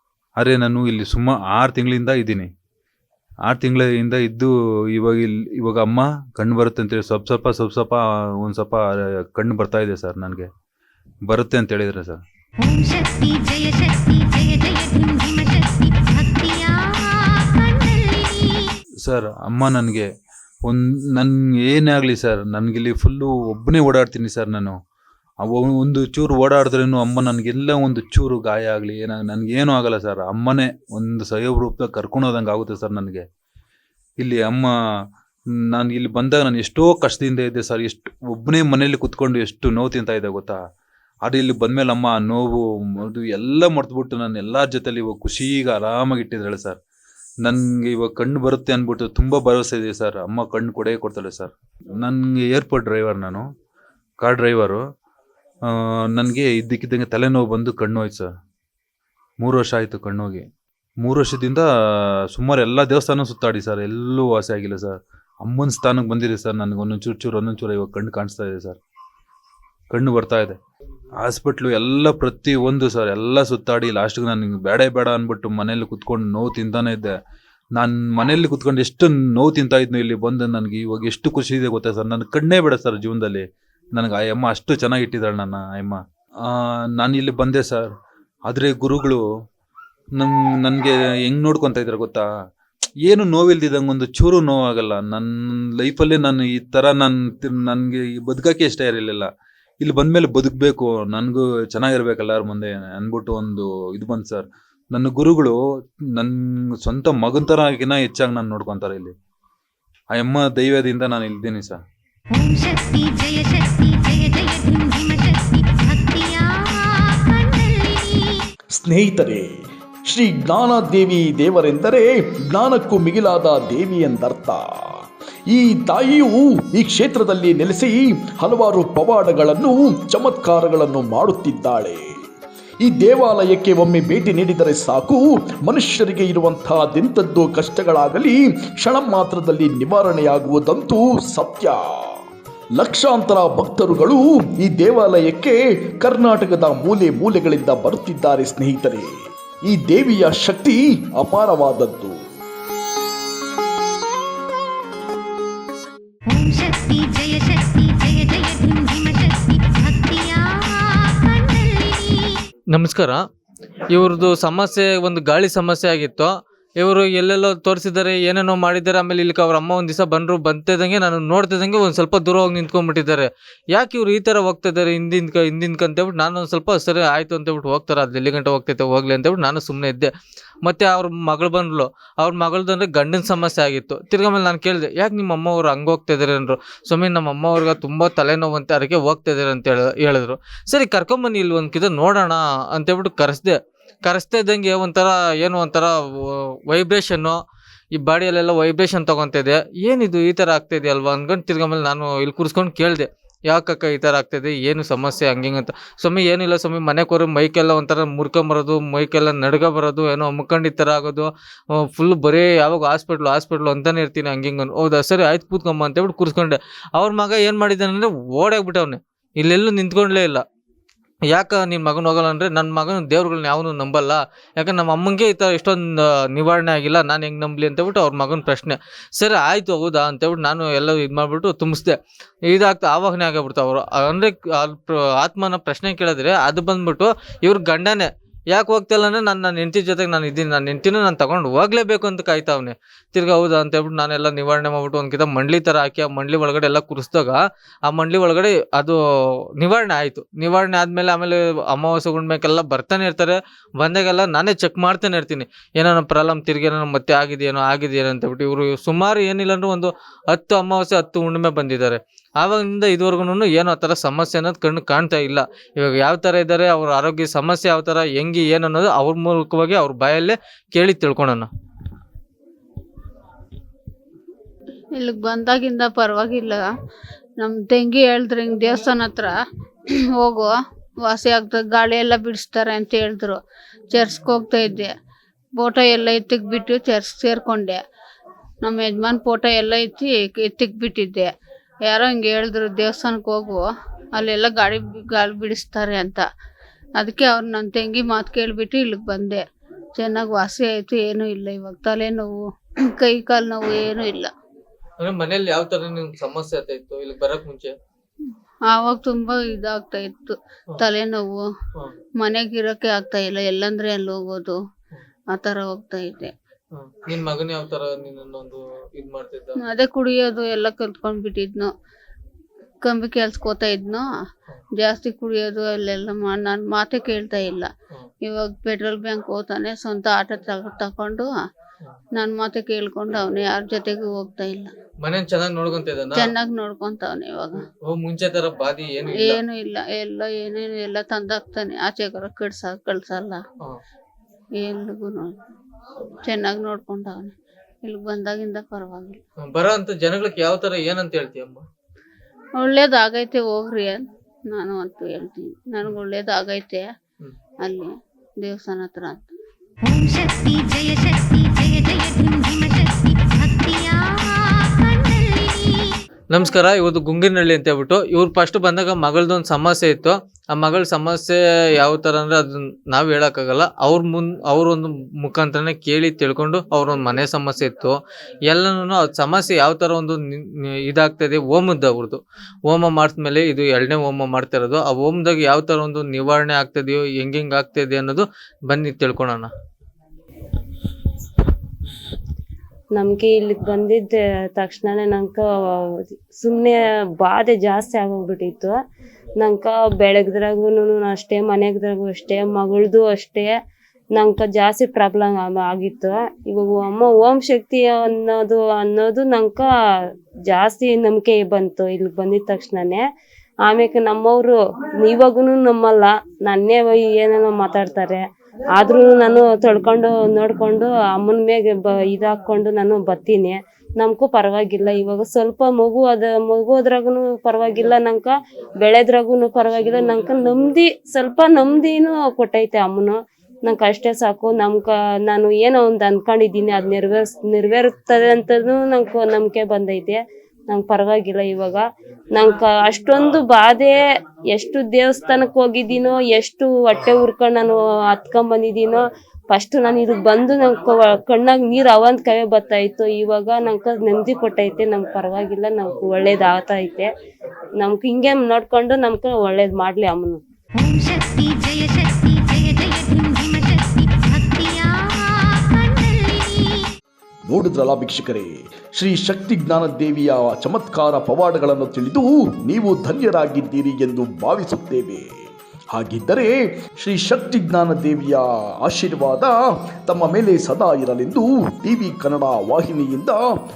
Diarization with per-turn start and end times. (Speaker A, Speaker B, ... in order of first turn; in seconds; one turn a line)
Speaker A: 0.4-2.5
Speaker A: 3.5-10.5
Speaker A: 11.3-12.2
Speaker B: 12.6-18.6
Speaker A: 19.1-20.1
Speaker A: 20.6-24.8
Speaker A: 25.4-33.3
Speaker A: 34.2-34.7
Speaker A: 35.7-40.6
Speaker A: 41.2-46.8
Speaker A: 47.4-53.5
Speaker A: 54.2-54.8
Speaker A: 56.1-58.3
Speaker A: 59.4-60.5
Speaker A: 61.0-61.7
Speaker A: 62.3-68.8
Speaker A: 69.9-70.6
Speaker A: 71.2-77.1
Speaker A: 77.8-87.9
Speaker A: 88.5-89.2
Speaker A: 90.2-92.2
Speaker A: 93.1-99.3
Speaker A: 99.8-105.6
Speaker A: 106.2-109.1
Speaker A: 110.1-111.8
Speaker B: 112.3-118.3
Speaker C: 118.7-132.2
Speaker C: 132.8-142.1
Speaker C: 142.8-149.1
Speaker C: 149.7-152.2
Speaker B: 156.3-162.3
Speaker D: 162.7-163.2
Speaker D: 163.9-180.1
Speaker D: 180.6-197.4
Speaker D: 197.9-220.4
Speaker D: 221.3-232.0
Speaker D: 232.5-249.0
Speaker D: 249.6-271.5
Speaker E: 275.0-276.6
Speaker E: 277.4-279.4
Speaker E: 280.2-280.5
Speaker E: 281.0-283.4
Speaker E: 283.9-284.9
Speaker E: 285.6-287.8
Speaker E: 288.6-291.3
Speaker E: 291.9-296.2
Speaker E: 297.0-299.4
Speaker E: 300.0-302.4
Speaker E: 302.9-304.3
Speaker D: 305.0-307.7
Speaker E: 308.7-311.5
Speaker E: 312.2-314.6
Speaker E: 315.3-316.3
Speaker D: 316.8-319.6
Speaker E: 319.7-321.7
Speaker E: 322.8-324.1
Speaker E: 324.8-327.7
Speaker E: 328.3-331.3
Speaker E: 332.2-334.7
Speaker D: 335.0-336.4
Speaker E: 336.1-337.6
Speaker D: 337.9-339.4
Speaker E: 339.2-343.4
Speaker E: 344.6-345.3
Speaker E: 346.2-349.2
Speaker D: 349.4-351.6
Speaker E: 352.6-356.9
Speaker E: 357.6-359.3
Speaker B: 359.8-366.0
Speaker D: 366.3-378.0
Speaker D: 378.5-389.5
Speaker F: 392.9-398.8
Speaker F: 399.4-403.5
Speaker F: 404.2-409.7
Speaker F: 410.5-413.0
Speaker F: 413.7-418.2
Speaker F: 418.8-441.8
Speaker F: 442.4-457.1
Speaker F: 457.8-460.4
Speaker B: 460.8-466.8
Speaker C: 467.5-475.4
Speaker C: 475.9-479.6
Speaker C: 480.1-483.4